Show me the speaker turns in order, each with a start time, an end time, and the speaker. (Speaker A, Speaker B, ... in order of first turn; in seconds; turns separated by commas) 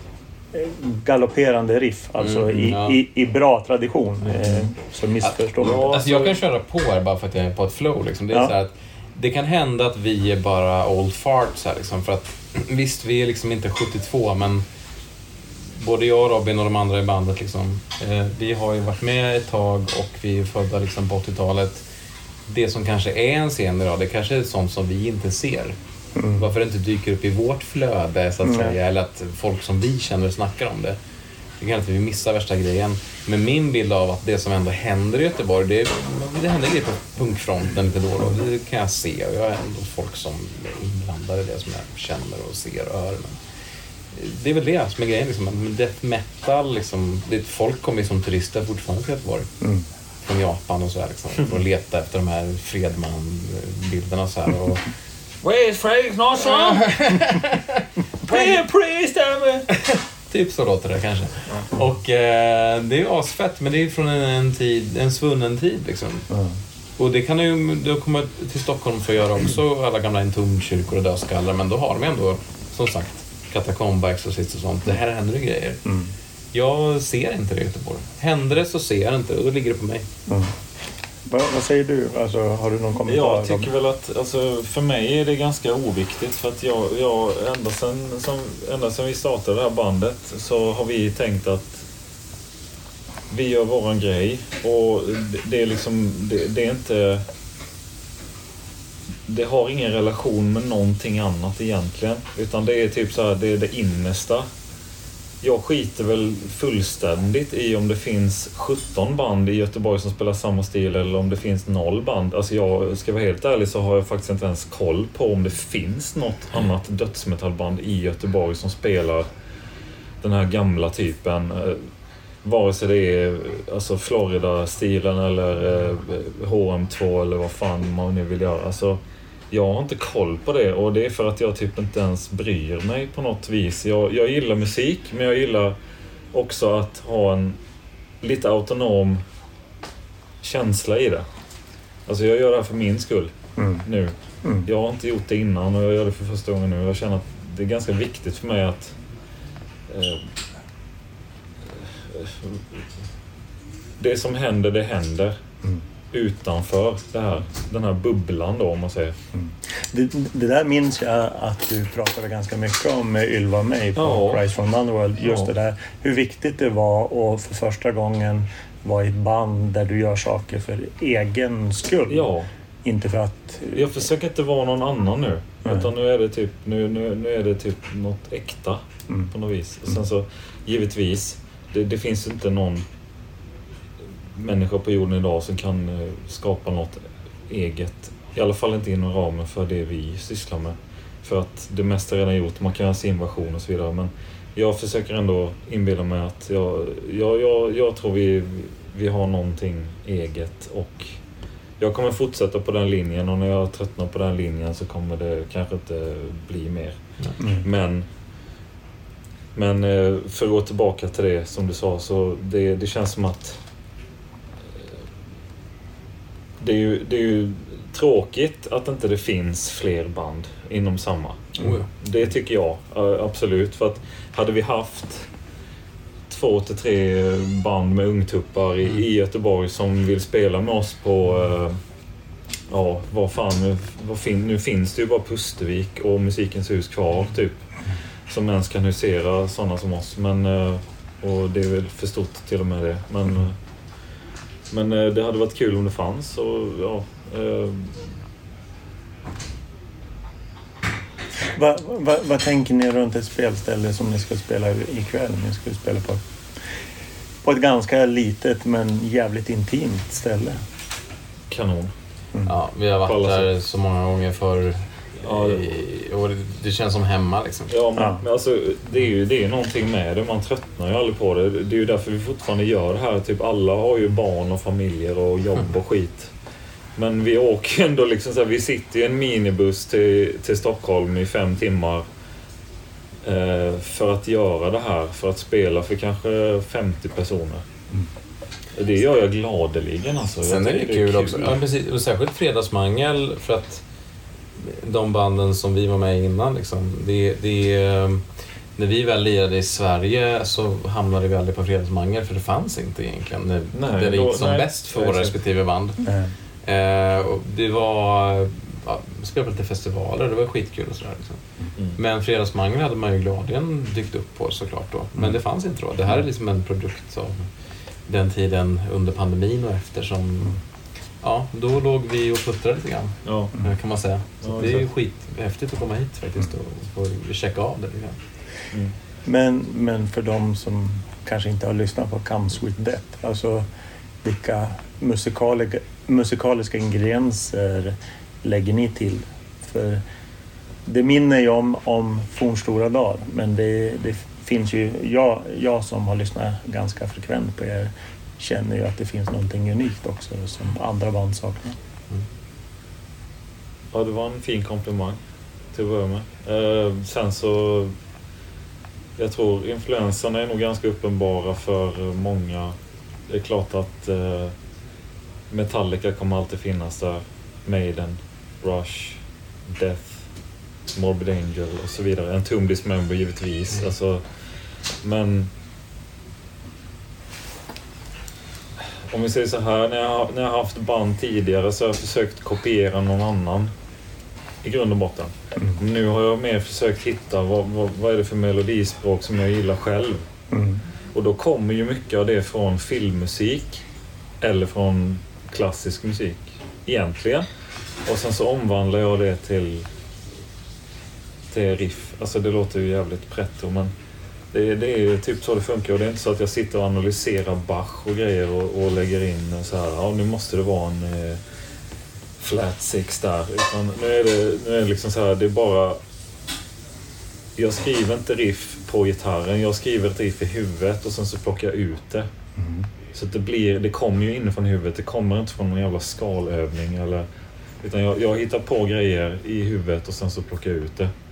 Speaker A: 0.5-6.0, Speaker B: 2.2-3.0, Speaker C: 5.6-6.4, Speaker B: 5.9-14.6, Speaker B: 15.8-21.8, Speaker B: 22.5-25.8, Speaker A: 26.1-26.5, Speaker B: 26.4-31.0, Speaker A: 28.4-28.7, Speaker B: 31.6-43.4, Speaker B: 44.1-49.5, Speaker A: 49.6-49.9, Speaker B: 50.2-54.8, Speaker C: 55.4-56.9, Speaker B: 56.4-58.5, Speaker C: 58.3-59.6, Speaker B: 59.7-66.3, Speaker A: 66.3-66.6, Speaker B: 67.0-75.8, Speaker A: 75.8-76.1, Speaker B: 76.5-80.1, Speaker A: 80.3-80.5, Speaker A: 81.2-83.7, Speaker C: 83.0-91.8, Speaker C: 93.3-97.2, Speaker C: 99.3-104.5, Speaker C: 105.4-119.3, Speaker C: 120.2-121.9, Speaker C: 122.4-129.0, Speaker C: 129.5-135.8, Speaker C: 136.3-137.6, Speaker C: 138.2-139.2, Speaker C: 140.4-141.2, Speaker C: 142.1-143.3, Speaker A: 143.6-143.8, Speaker C: 143.8-148.9, Speaker C: 149.9-150.3, Speaker C: 151.7-152.8, Speaker C: 154.0-155.4, Speaker C: 156.1-159.2, Speaker A: 159.3-172.3, Speaker C: 163.9-164.4, Speaker C: 165.2-165.5, Speaker C: 172.1-172.5, Speaker A: 172.8-173.9, Speaker C: 173.7-182.8, Speaker C: 184.3-201.1, Speaker C: 201.8-207.0, Speaker A: 207.4-207.7, Speaker C: 207.6-208.1, Speaker C: 209.5-213.6, Speaker C: 216.6-225.3, Speaker B: 221.6-221.9, Speaker C: 226.3-231.8, Speaker C: 232.7-237.6, Speaker C: 238.3-243.6, Speaker C: 244.7-248.1, Speaker A: 251.4-256.2, Speaker A: 257.4-260.6, Speaker C: 261.5-261.9, Speaker B: 262.4-267.7, Speaker C: 263.0-263.5, Speaker C: 265.2-265.6, Speaker C: 267.7-276.3, Speaker A: 267.9-268.2, Speaker C: 276.9-282.0, Speaker C: 283.2-287.6, Speaker C: 288.7-291.6, Speaker B: 290.4-293.8, Speaker B: 294.6-298.2, Speaker B: 298.8-306.0, Speaker C: 303.7-305.4, Speaker A: 306.0-306.3, Speaker B: 306.6-311.4, Speaker B: 311.9-317.4, Speaker B: 318.1-320.6, Speaker B: 321.2-328.2, Speaker C: 323.2-323.5, Speaker C: 324.4-324.9, Speaker A: 329.2-333.6, Speaker A: 334.2-340.0, Speaker A: 340.9-351.8, Speaker C: 353.9-355.2, Speaker C: 355.7-357.9, Speaker C: 359.2-362.7, Speaker C: 363.3-364.5, Speaker C: 365.5-370.2, Speaker C: 370.9-374.5, Speaker C: 375.0-375.5, Speaker C: 379.1-383.7, Speaker C: 384.6-390.3, Speaker A: 390.5-390.8, Speaker C: 391.1-393.8, Speaker C: 394.4-397.4, Speaker C: 398.1-399.9, Speaker C: 401.5-403.9, Speaker C: 404.5-411.4, Speaker C: 412.4-416.0, Speaker C: 417.6-422.3, Speaker A: 422.6-422.9, Speaker C: 423.1-427.3, Speaker C: 427.8-431.1